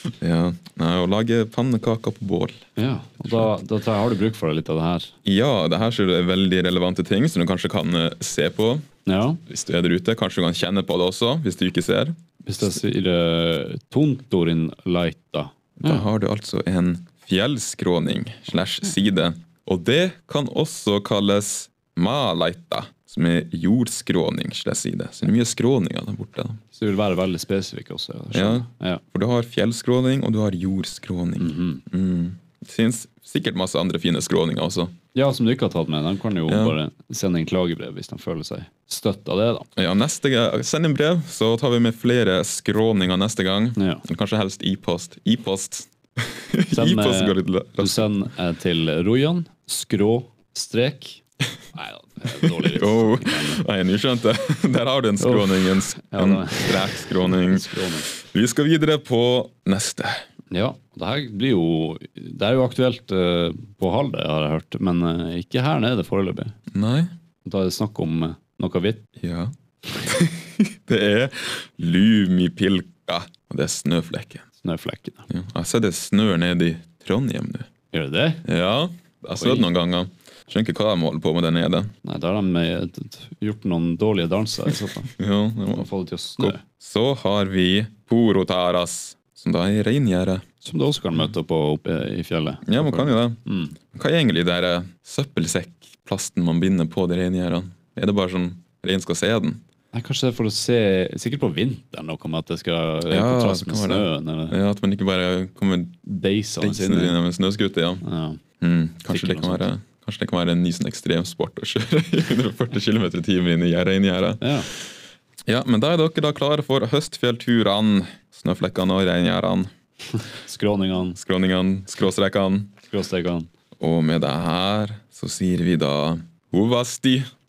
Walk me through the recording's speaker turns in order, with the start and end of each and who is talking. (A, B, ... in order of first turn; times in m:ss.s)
0:00.2-0:02.6 A
0:02.8-0:05.1 B
0:05.2-0:08.8 A
0:09.0-0:09.4 B
0:09.5-0:12.7 A
0:12.4-0:16.1 B
0:15.8-0:26.6 A
0:26.7-0:29.0 B
0:28.3-0:35.0 A
0:31.4-0:31.8 B
0:35.1-0:39.7 B
0:36.5-0:36.7 A
0:39.8-0:48.1 A
0:43.8-0:44.0 B
0:46.7-0:51.2 B
0:51.7-0:53.6 B
0:52.6-1:00.2 A
0:55.2-0:58.1 B
1:00.5-1:06.5 B
1:06.7-1:07.1 A
1:07.4-1:09.0 B
1:09.2-1:09.5 A
1:10.0-1:14.4 A
1:14.6-1:15.2 B
1:15.3-1:17.7 A
1:17.9-1:18.4 B
1:18.4-1:21.9 A
1:19.4-1:19.7 B
1:22.0-1:25.1 B
1:25.2-1:25.9 A
1:25.7-1:26.6 B
1:26.4-1:30.4 A
1:30.6-1:33.8 B
1:32.6-1:33.4 A
1:33.9-1:39.6 A
1:39.9-1:44.6 B
1:43.1-1:46.0 A
1:46.0-1:47.2 B
1:46.6-1:48.0 A
1:48.0-1:48.4 B
1:48.6-1:54.4 A
1:49.1-1:49.7 B
1:54.4-1:54.7 B
1:55.5-1:59.7 A
2:00.4-2:01.2 B
2:01.1-2:02.7 A
2:02.9-2:03.5 B
2:03.8-2:07.3 A